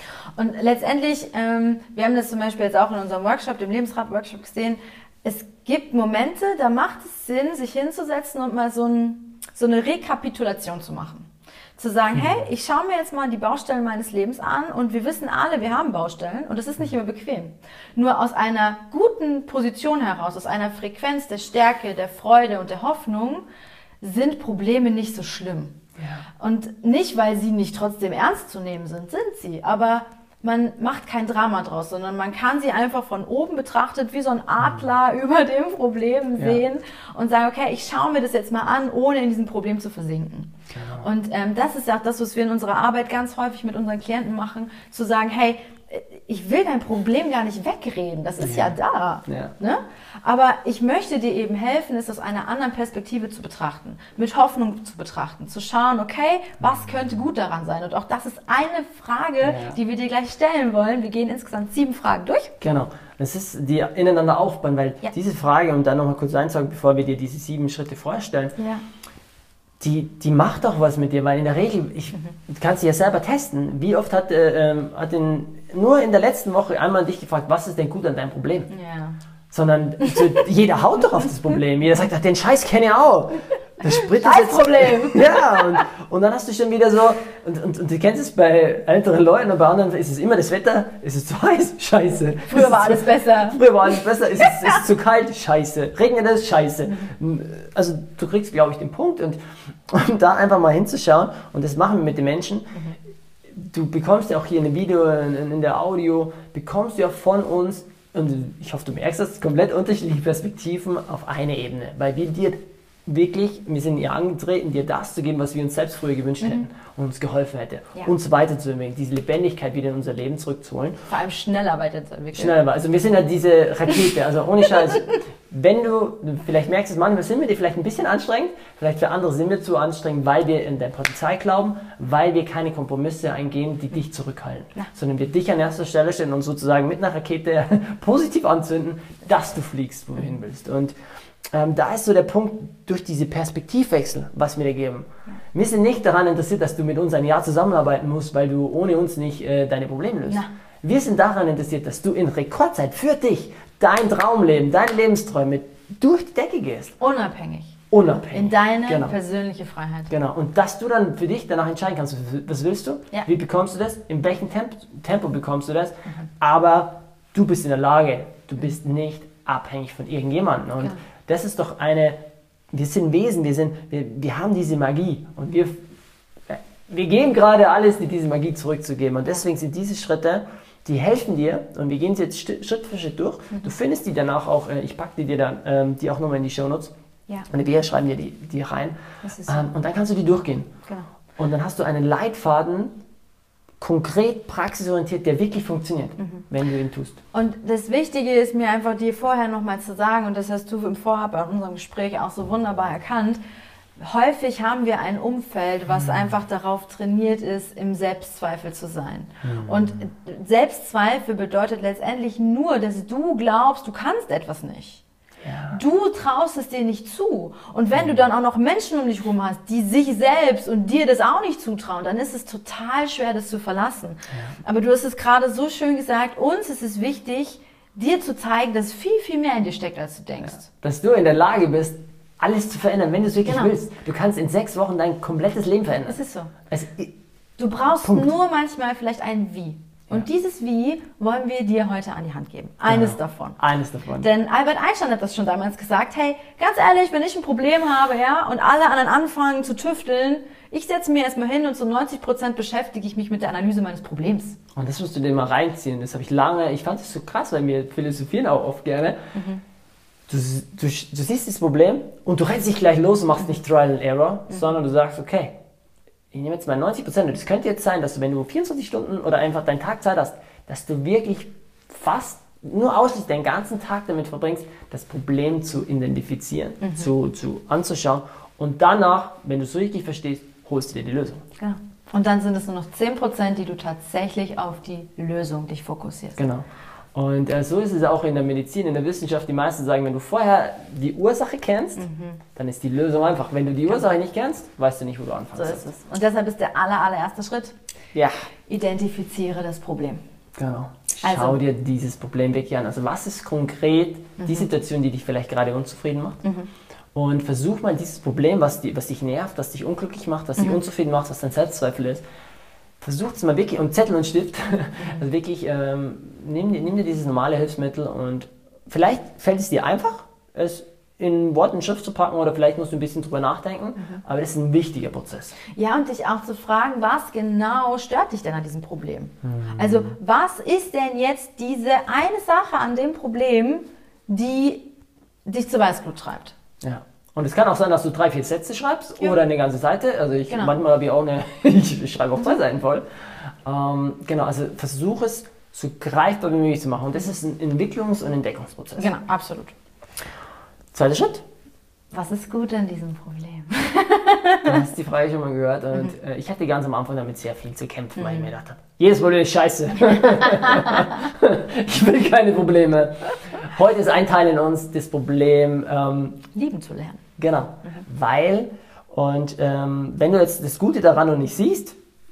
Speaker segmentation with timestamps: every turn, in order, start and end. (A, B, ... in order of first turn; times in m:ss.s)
0:00.3-0:23.4 A
0:24.0-0:25.8 A
0:26.0-0:26.2 B
0:26.4-1:02.5 A
0:40.7-0:41.1 B
0:48.4-0:48.7 B
0:49.3-0:49.5 B
0:59.4-0:59.8 B
1:02.6-1:08.6 B
1:08.6-1:08.8 A
1:09.8-1:18.7 B
1:18.7-1:19.2 A
1:19.5-1:42.8 B
1:20.0-1:20.4 A
1:23.8-1:25.8 A
1:32.5-1:34.8 A
1:43.5-2:01.0 B
2:01.1-2:02.6 A
2:02.3-2:20.9 B
2:21.5-2:36.9 B
2:37.0-2:37.8 A
2:37.9-2:39.1 B
2:38.3-2:40.1 A
2:40.1-2:52.2 B
2:52.7-2:55.8 B
2:56.5-3:06.9 B
3:07.5-3:10.7 B
3:09.2-3:09.7 A
3:11.4-3:13.0 B
3:13.8-3:17.2 B
3:16.2-3:16.4 A
3:17.3-3:23.4 A
3:24.0-3:35.0 A
3:25.9-3:26.3 B
3:29.4-3:30.0 B
3:35.4-3:35.8 B
3:35.7-3:50.7 A
3:50.5-3:57.1 B
3:53.4-3:53.7 A
3:56.1-3:56.5 A
3:57.6-4:03.6 A
4:02.8-4:04.3 B
4:04.2-4:14.6 A
4:14.7-4:19.2 B
4:19.3-4:19.6 A
4:20.3-4:25.6 B
4:26.3-4:41.4 B
4:36.8-4:37.1 A
4:41.6-4:46.4 A
4:46.4-4:55.8 B
4:52.0-4:52.4 A
4:55.6-4:57.8 A
4:58.7-5:00.2 A
5:00.6-5:06.4 B
5:01.2-5:01.6 A
5:04.4-5:04.7 A
5:06.4-5:06.7 A
5:07.1-5:12.2 B
5:13.0-5:25.5 B
5:25.7-5:34.9 A
5:29.4-5:30.1 B
5:35.4-5:36.5 A
5:36.8-5:49.1 B
5:40.5-5:40.8 A
5:49.0-5:49.7 A
5:50.9-5:51.4 B
5:52.1-5:54.8 A
5:54.6-6:06.4 B
5:58.2-5:58.5 A
6:06.5-6:07.2 A
6:07.4-6:12.0 B